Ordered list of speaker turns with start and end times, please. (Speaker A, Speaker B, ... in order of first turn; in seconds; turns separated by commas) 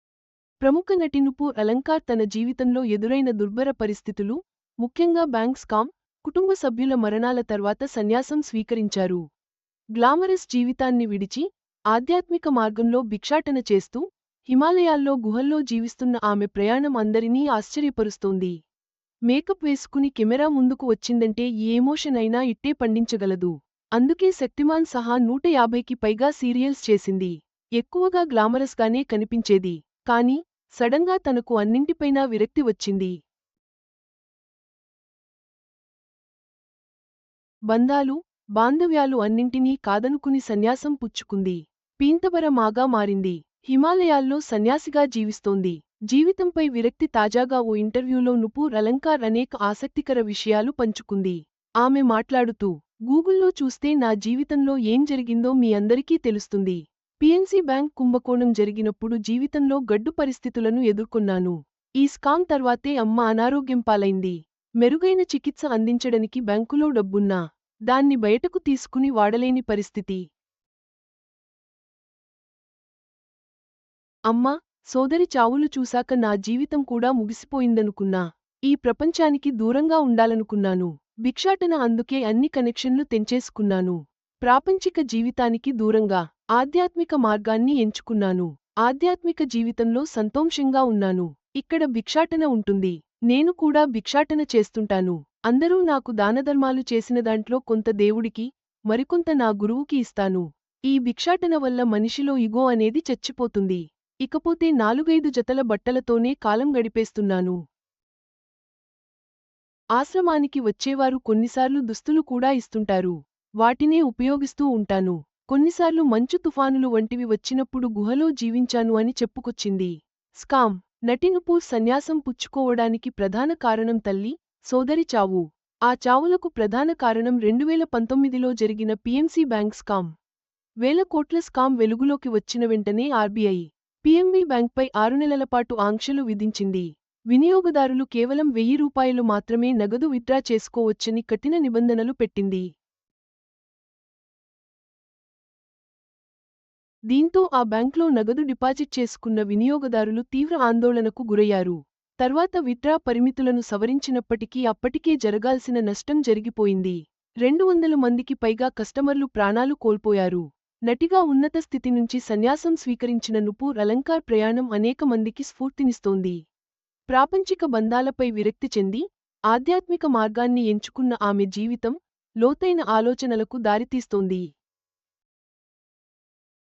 Speaker A: 0.6-9.2, Speaker A: 10.0-18.5, Speaker A: 19.3-33.1, Speaker A: 37.7-67.4, Speaker A: 67.9-70.2, Speaker A: 74.3-107.5, Speaker A: 110.0-130.1, Speaker A: 130.8-142.6, Speaker A: 147.1-166.4, Speaker A: 167.1-174.4